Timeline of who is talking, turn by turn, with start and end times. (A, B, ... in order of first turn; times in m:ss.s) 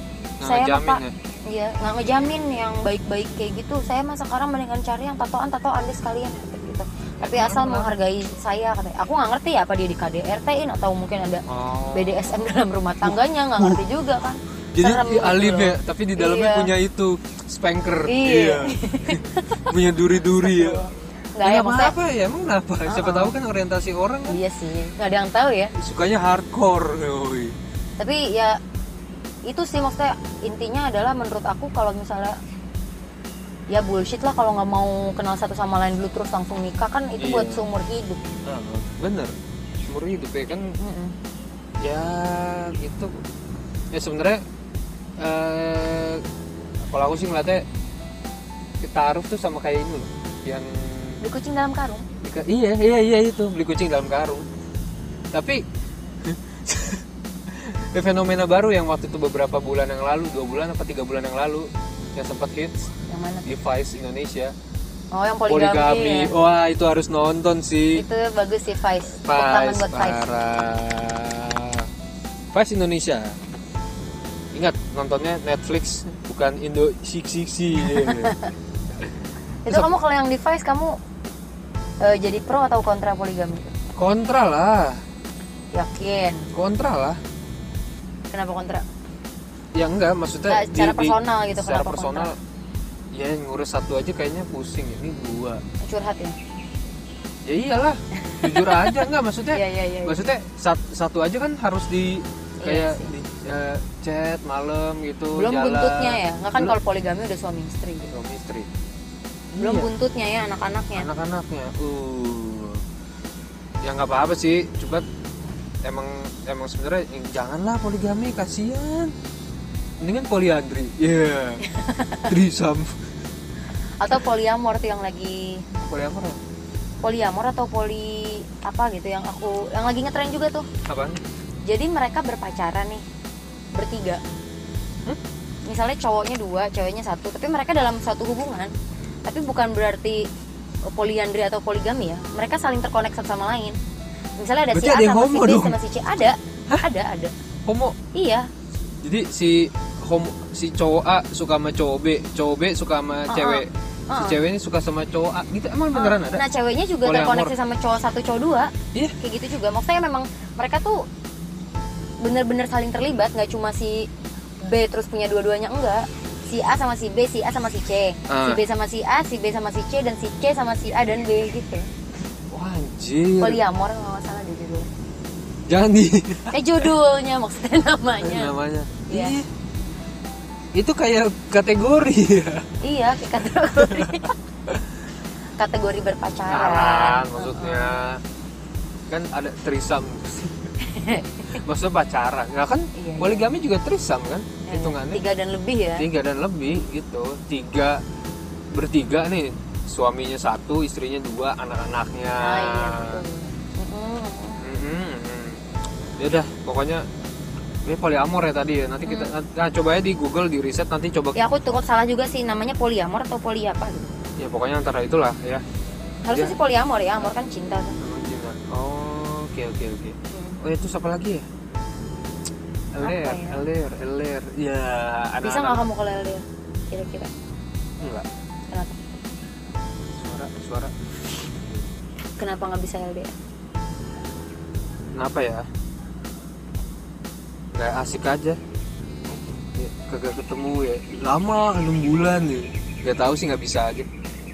0:00.4-0:01.1 A
0:00.4-0:16.7 B
0:07.2-0:07.9 A
0:11.5-0:12.4 A
0:13.0-0:13.8 A
0:14.8-0:20.9 A
0:18.1-0:19.7 B
0:20.4-0:22.0 B
0:21.4-0:24.4 A
0:22.9-0:23.3 B
0:24.3-0:25.7 B
0:25.8-0:27.6 A
0:28.0-0:28.6 B
0:29.5-0:32.4 B
0:33.7-0:38.2 B
0:37.2-0:37.6 A
0:38.4-0:39.3 A
0:39.9-0:40.7 A
0:40.8-0:41.1 B
0:41.8-0:43.1 A
0:43.9-0:44.4 A
0:45.2-0:46.2 A
0:46.9-0:47.6 A
0:48.8-0:51.2 A
0:51.2-0:52.1 B
0:52.2-0:54.5 A
0:55.3-0:55.6 A
0:56.2-1:02.9 A
1:03.1-1:03.5 B
1:03.4-1:04.5 A
1:05.1-1:06.3 B
1:05.5-1:08.0 A
1:07.9-1:10.2 B
1:09.2-1:11.9 A
1:12.5-1:13.4 A
1:14.5-1:18.3 A
1:18.0-1:18.5 B
1:19.6-1:21.0 B
1:19.7-1:20.0 A
1:22.0-1:23.7 B
1:24.0-1:25.0 A
1:25.7-1:26.5 B
1:26.5-1:27.2 A
1:28.3-1:28.9 B
1:29.7-1:32.4 A
1:30.5-1:32.3 B
1:33.1-1:35.6 A
1:35.8-1:36.4 B
1:37.4-1:46.8 A
1:38.3-1:39.0 B
1:39.5-1:40.2 B
1:42.6-1:43.1 B
1:45.4-1:48.1 B
1:48.1-1:48.7 A
1:49.5-1:49.9 A
1:49.6-1:51.1 B
1:51.0-1:52.8 A
1:53.8-1:55.0 A
1:55.8-1:59.1 A
2:00.0-2:01.6 A
2:01.6-2:02.3 B
2:02.2-2:03.0 A
2:04.0-2:05.7 B
2:05.8-2:06.4 A
2:07.0-2:10.7 B
2:10.9-2:11.2 A
2:11.7-2:13.0 B
2:13.8-2:14.2 B
2:15.7-2:18.7 B
2:19.2-2:20.3 B
2:20.9-2:23.8 B
2:24.4-2:27.3 B
2:24.7-2:25.8 A
2:27.7-2:28.0 A
2:28.1-2:28.5 B
2:29.0-2:36.4 A
2:33.3-2:34.4 B
2:35.9-2:41.1 B
2:37.0-2:37.5 A
2:42.2-2:44.1 B
2:44.6-2:51.9 B
2:48.3-2:48.6 A
2:52.5-2:53.6 A
2:53.4-2:54.9 B
2:55.7-2:56.9 A
2:56.5-2:58.5 B
2:58.2-2:59.5 A
2:59.1-2:59.4 B
3:00.8-3:02.7 A
3:02.8-3:04.3 B
3:03.8-3:04.2 A
3:05.6-3:08.0 B
3:06.5-3:08.2 A
3:09.1-3:10.7 A
3:10.8-3:11.6 B
3:11.5-3:15.2 A
3:13.0-3:13.5 B
3:14.7-3:16.1 B
3:16.0-3:18.0 A
3:18.7-3:23.2 A
3:22.4-3:24.6 B
3:24.6-3:25.6 A
3:26.2-3:27.1 A
3:27.8-3:31.4 A
3:29.1-3:29.3 B
3:31.4-3:34.1 B
3:34.4-3:35.6 A
3:36.2-3:38.0 B
3:36.3-3:36.6 A
3:38.0-3:41.4 A
3:40.3-3:40.6 B
3:42.9-3:45.8 A
3:43.0-3:43.6 B
3:45.4-3:47.3 B
3:48.0-3:48.3 A
3:48.7-3:49.2 B
3:50.1-3:50.9 A
3:52.4-3:53.3 B
3:55.1-3:55.6 A
3:57.7-3:58.6 A
3:59.8-4:04.1 A